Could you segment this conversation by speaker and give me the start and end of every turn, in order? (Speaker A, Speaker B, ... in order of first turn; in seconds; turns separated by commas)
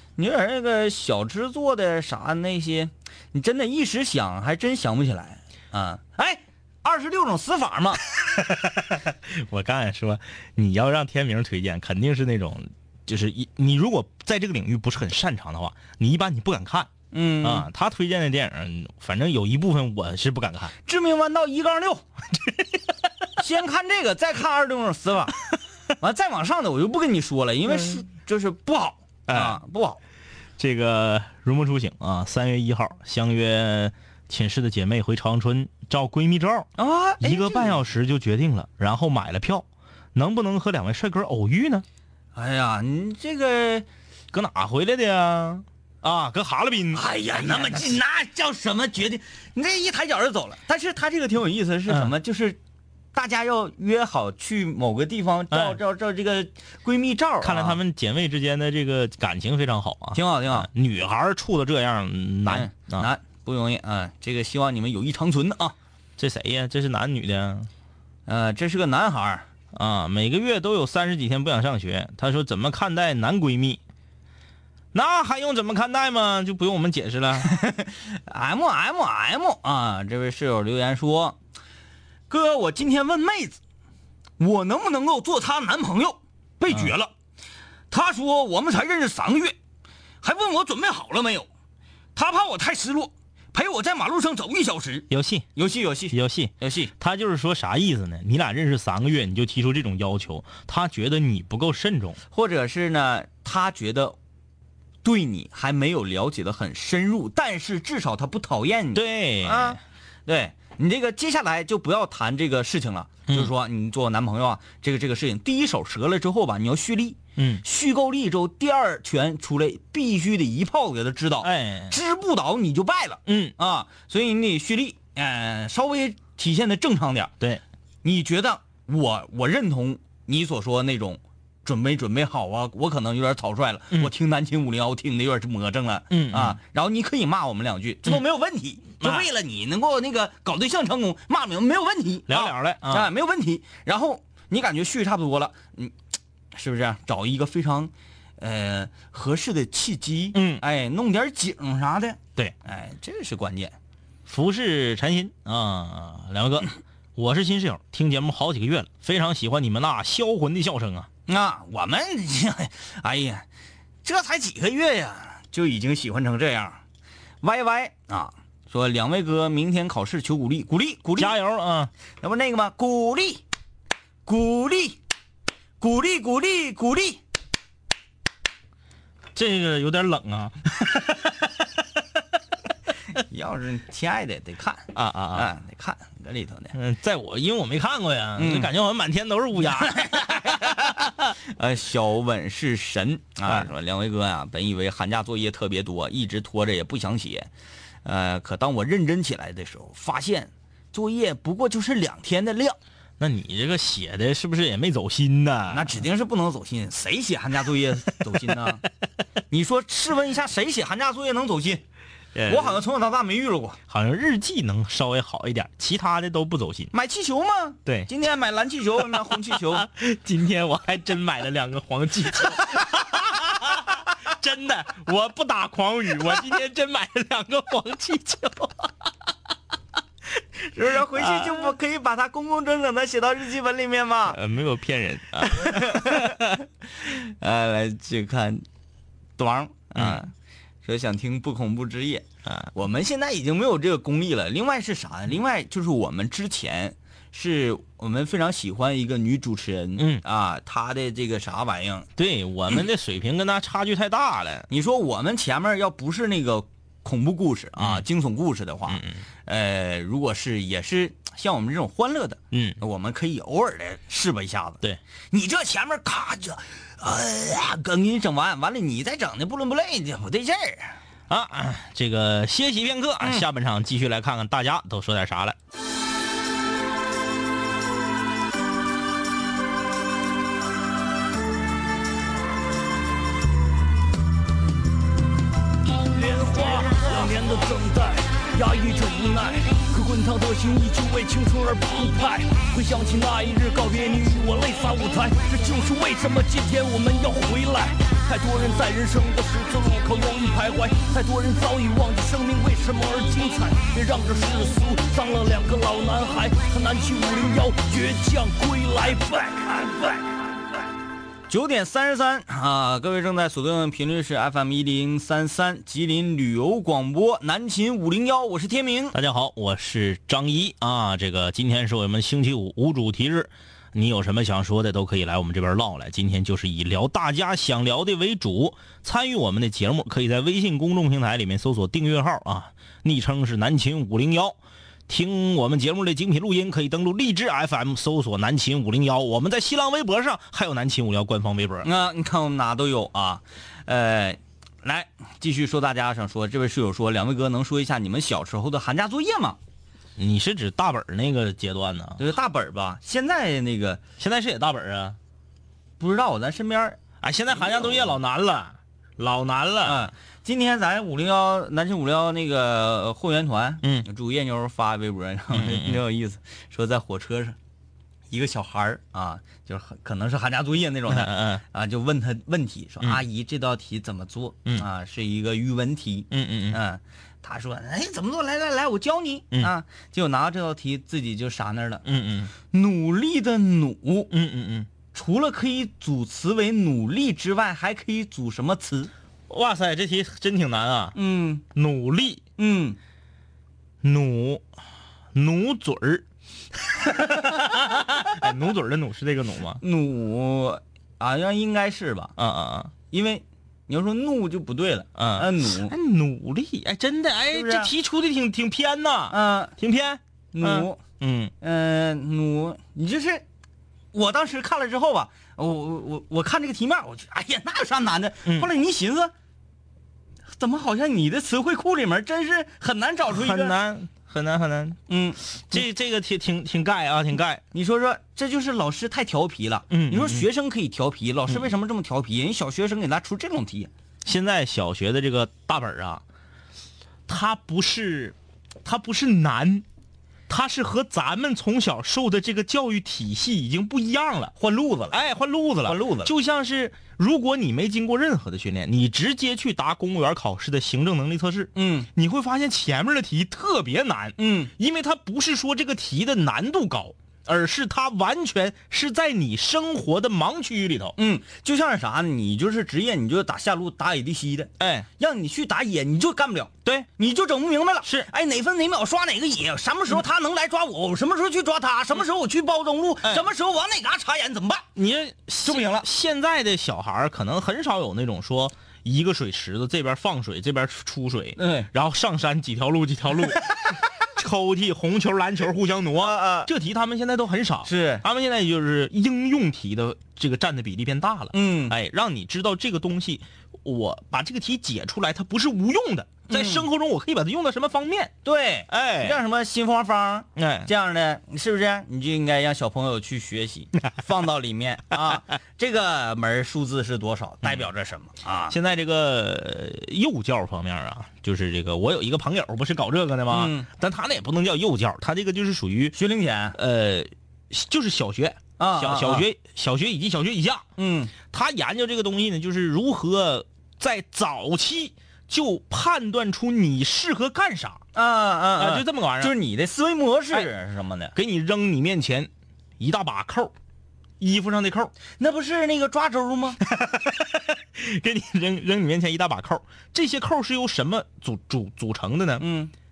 Speaker A: 0.2-8.0, Speaker B: 8.2-20.7, Speaker A: 17.1-17.7, Speaker A: 20.9-22.1, Speaker B: 22.4-22.7, Speaker A: 23.4-25.4, Speaker A: 26.0-30.0, Speaker B: 29.3-29.6, Speaker B: 30.6-36.7, Speaker A: 36.8-37.8, Speaker B: 37.2-41.9, Speaker A: 42.4-43.9, Speaker B: 44.3-48.0, Speaker A: 46.9-52.6, Speaker A: 53.1-57.8, Speaker B: 55.5-55.8, Speaker B: 57.4-63.1, Speaker A: 60.1-60.7, Speaker A: 62.5-65.8, Speaker B: 66.2-67.7, Speaker A: 68.3-69.5, Speaker B: 69.7-73.8, Speaker B: 74.9-77.5, Speaker A: 77.4-81.4, Speaker A: 82.3-83.6, Speaker A: 84.4-87.1, Speaker A: 87.9-89.6, Speaker A: 90.2-91.5, Speaker A: 92.2-96.9, Speaker B: 95.1-95.5, Speaker B: 96.1-102.2, Speaker A: 102.3-104.2, Speaker A: 105.0-127.3, Speaker B: 108.9-109.8, Speaker B: 117.4-117.6, Speaker B: 121.4-122.0, Speaker B: 123.3-123.5, Speaker A: 128.0-145.9, Speaker B: 136.1-136.6, Speaker B: 139.0-139.3, Speaker B: 142.3-143.1, Speaker A: 146.5-153.8, Speaker B: 150.3-150.6, Speaker B: 154.3-161.1, Speaker A: 161.3-163.5, Speaker A: 164.0-166.8, Speaker A: 167.4-171.4, Speaker B: 171.2-171.9, Speaker A: 172.2-173.4, Speaker A: 174.3-175.0, Speaker A: 175.8-177.2, Speaker B: 179.3-181.6, Speaker A: 183.2-186.7, Speaker B: 184.9-185.5, Speaker B: 186.7-191.3, Speaker A: 188.4-188.7, Speaker A: 189.8-197.5, Speaker A: 198.1-202.8, Speaker B: 203.2-206.0, Speaker A: 205.7-208.8, Speaker A: 209.5-211.8, Speaker B: 212.3-212.8, Speaker A: 212.5-213.8, Speaker B: 213.9-216.9, Speaker A: 216.9-219.9, Speaker B: 219.0-228.9, Speaker A: 230.7-234.4, Speaker B: 231.1-231.7, Speaker B: 234.3-236.6, Speaker A: 235.5-238.7, Speaker A: 239.4-240.3, Speaker B: 240.0-240.2, Speaker A: 240.8-252.1, Speaker B: 242.5-242.7, Speaker B: 250.0-250.2, Speaker B: 252.2-254.7, Speaker A: 254.7-264.8, Speaker B: 257.8-258.1, Speaker B: 258.9-259.2, Speaker B: 262.5-262.8, Speaker A: 265.3-271.0, Speaker B: 271.3-275.6, Speaker C: 286.1-310.2, Speaker A: 311.5-319.2, Speaker B: 319.1-341.9, Speaker A: 341.8-349.6, Speaker B: 350.2-352.2, Speaker A: 352.2-354.0, Speaker B: 354.2-355.2, Speaker A: 356.0-357.0, Speaker B: 357.2-360.1, Speaker A: 357.5-358.2, Speaker A: 359.8-367.6, Speaker B: 365.5-366.0, Speaker A: 368.3-382.0, Speaker B: 371.1-371.6, Speaker B: 376.3-376.8, Speaker B: 382.1-382.5, Speaker A: 382.7-384.3, Speaker B: 384.3-384.9, Speaker A: 385.1-389.1, Speaker B: 389.5-391.2, Speaker A: 391.1-391.6, Speaker B: 391.7-392.4, Speaker A: 392.6-393.0, Speaker B: 394.0-394.6, Speaker B: 395.3-396.2, Speaker B: 396.9-399.8, Speaker A: 397.3-397.7, Speaker A: 399.8-402.3, Speaker B: 402.4-402.9, Speaker A: 403.1-405.9, Speaker B: 405.2-411.5, Speaker A: 407.5-407.9, Speaker A: 409.3-409.8, Speaker A: 410.5-411.0, Speaker A: 411.6-413.4, Speaker A: 414.1-419.3, Speaker A: 420.5-423.8, Speaker B: 423.3-425.0, Speaker A: 425.1-425.8, Speaker B: 425.6-427.6, Speaker A: 427.7-433.9, Speaker B: 429.9-430.5, Speaker B: 434.2-436.2, Speaker B: 437.3-439.9, Speaker B: 440.5-444.5, Speaker A: 444.6-445.2, Speaker B: 445.1-461.2, Speaker A: 445.9-446.3, Speaker A: 451.8-452.1, Speaker A: 454.4-454.7, Speaker A: 461.2-474.9, Speaker B: 464.8-465.1, Speaker B: 468.0-468.3, Speaker B: 474.9-498.3, Speaker A: 475.6-476.1, Speaker A: 481.6-481.9, Speaker A: 486.2-486.7, Speaker A: 487.9-488.2, Speaker A: 491.5-491.9, Speaker A: 496.5-496.9, Speaker A: 498.4-508.8, Speaker B: 498.9-499.4, Speaker B: 500.6-500.9, Speaker B: 508.7-516.2, Speaker A: 513.5-513.9, Speaker A: 516.1-516.8, Speaker B: 516.8-520.9, Speaker A: 518.8-519.5, Speaker A: 521.0-521.3, Speaker B: 521.4-528.0, Speaker A: 528.1-531.3, Speaker B: 528.8-529.5, Speaker B: 531.4-533.7, Speaker B: 534.4-535.1, Speaker A: 535.4-536.8, Speaker B: 536.8-542.7, Speaker A: 542.6-542.9